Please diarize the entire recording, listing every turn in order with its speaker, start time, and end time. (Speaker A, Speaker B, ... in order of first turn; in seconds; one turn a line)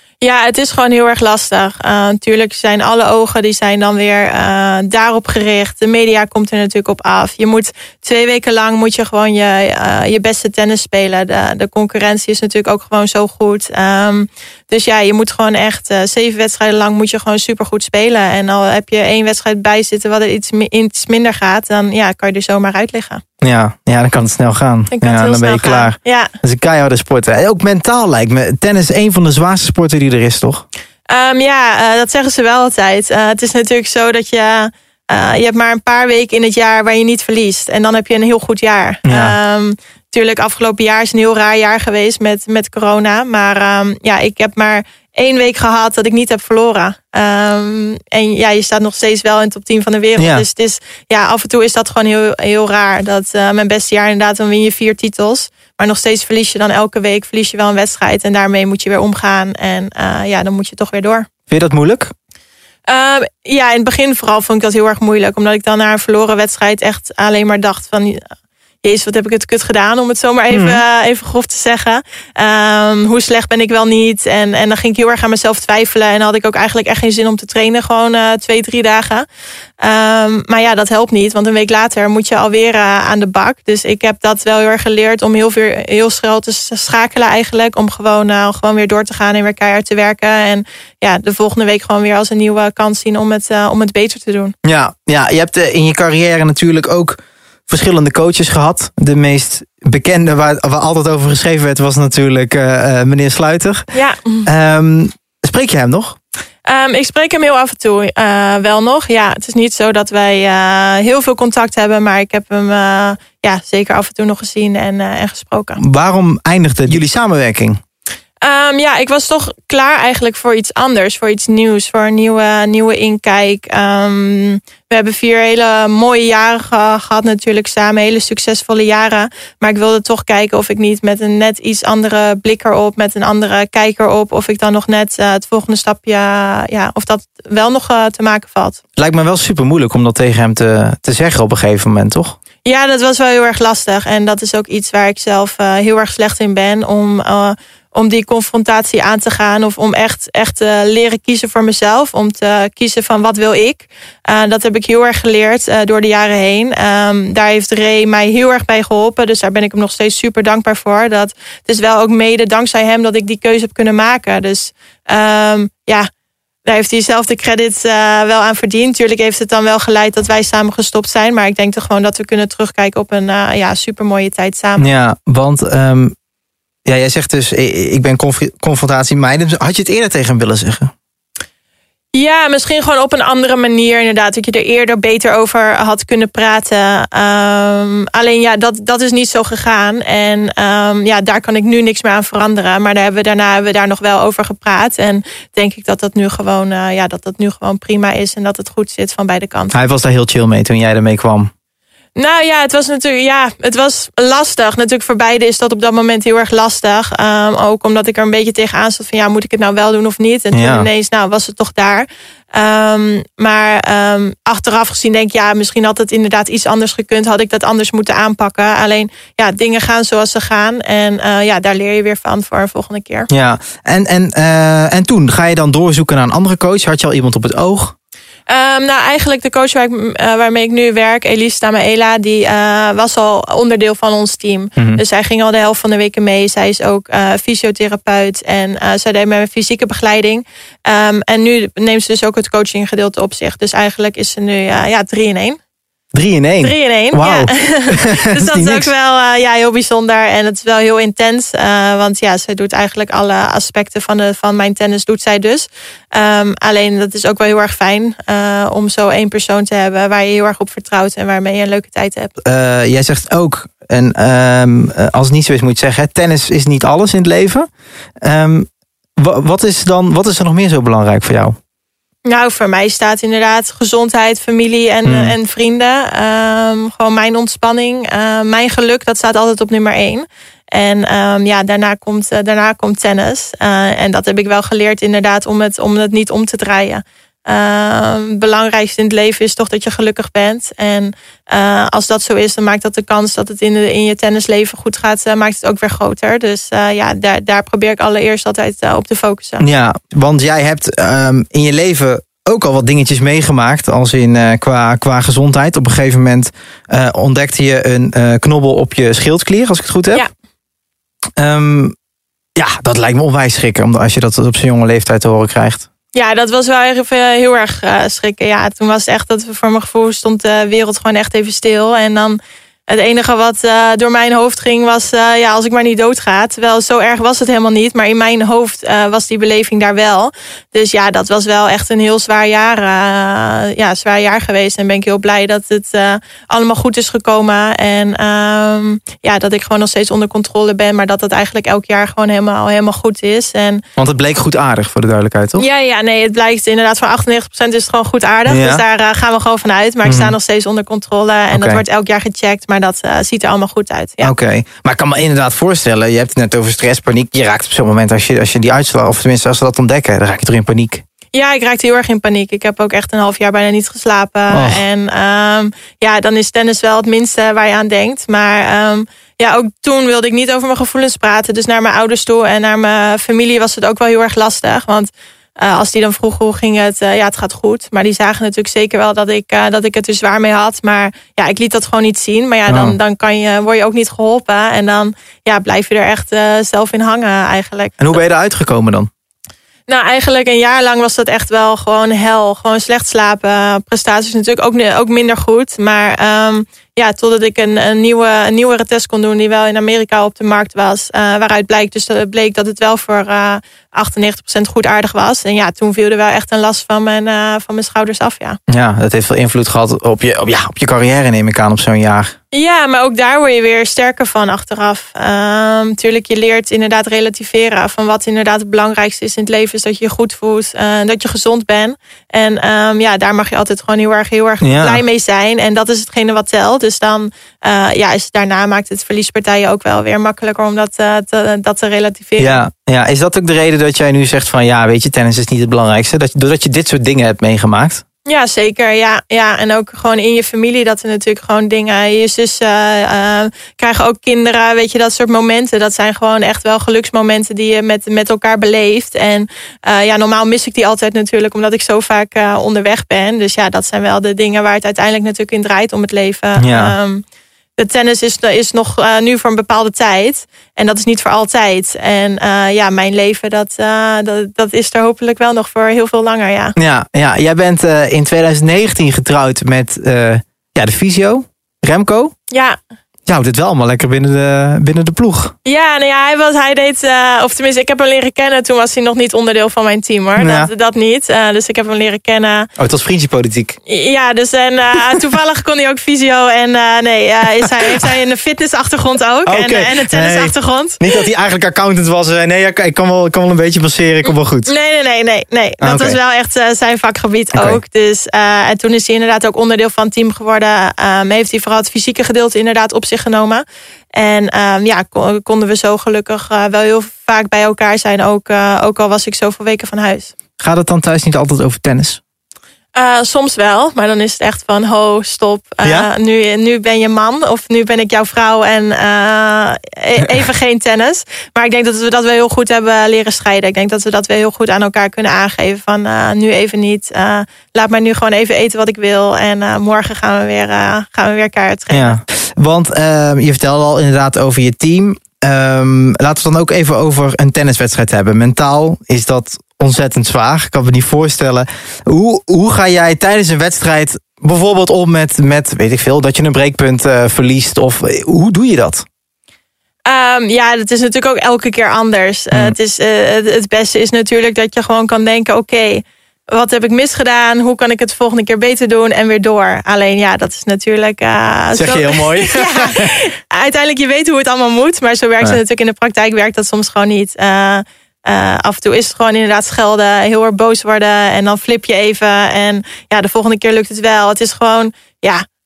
Speaker A: 0.2-23.2
Speaker B: 23.4-30.6
Speaker A: 24.9-26.3
Speaker A: 31.1-61.3
Speaker B: 39.0-39.4
Speaker B: 50.2-50.5
Speaker B: 61.5-62.1
Speaker A: 62.9-68.2
Speaker A: 68.8-79.2
Speaker B: 70.5-70.8
Speaker A: 79.8-94.5
Speaker B: 94.6-103.9
Speaker A: 103.9-104.5
Speaker B: 104.5-106.2
Speaker A: 106.7-115.8
Speaker B: 115.8-117.8
Speaker A: 118.4-138.8
Speaker B: 139.0-142.4
Speaker A: 142.7-166.1
Speaker A: 166.7-174.9
Speaker B: 174.8-176.1
Speaker B: 176.9-180.9
Speaker A: 182.2-199.8
Speaker B: 199.7-201.5
Speaker A: 202.2-223.3
Speaker B: 210.5-210.9
Speaker B: 223.3-227.9
Speaker A: 228.5-245.6
Speaker B: 246.1-248.9
Speaker A: 246.6-262.3
Speaker B: 262.4-267.7
Speaker B: 268.2-271.6
Speaker A: 272.2-299.6
Speaker B: 275.1-275.3
Speaker B: 299.6-310.2
Speaker B: 311.4-311.9
Speaker B: 312.6-315.9
Speaker A: 316.1-343.8
Speaker B: 344.0-345.6
Speaker A: 345.6-354.3
Speaker B: 348.5-348.8
Speaker B: 350.0-350.4
Speaker B: 351.5-351.8
Speaker B: 354.2-361.0
Speaker A: 361.3-388.0
Speaker B: 364.5-364.8
Speaker B: 382.7-383.0
Speaker B: 388.0-389.1
Speaker A: 389.9-408.6
Speaker B: 408.7-412.4
Speaker A: 412.5-432.6
Speaker B: 424.6-425.0
Speaker B: 432.4-438.0
Speaker A: 438.2-457.2
Speaker B: 456.6-456.9
Speaker A: 457.8-466.8
Speaker B: 466.8-472.3
Speaker A: 472.5-472.8
Speaker B: 473.3-475.5
Speaker A: 475.6-482.7
Speaker B: 480.4-480.7
Speaker B: 482.8-483.8
Speaker A: 483.9-491.2
Speaker B: 489.5-494.7
Speaker A: 494.7-503.6
Speaker B: 495.8-496.2
Speaker B: 497.5-497.8
Speaker A: 504.1-510.3
Speaker B: 510.6-512.2
Speaker A: 513.0-532.2
Speaker B: 515.8-516.1
Speaker B: 531.9-549.0
Speaker A: 550.1-575.4
Speaker B: 561.8-563.1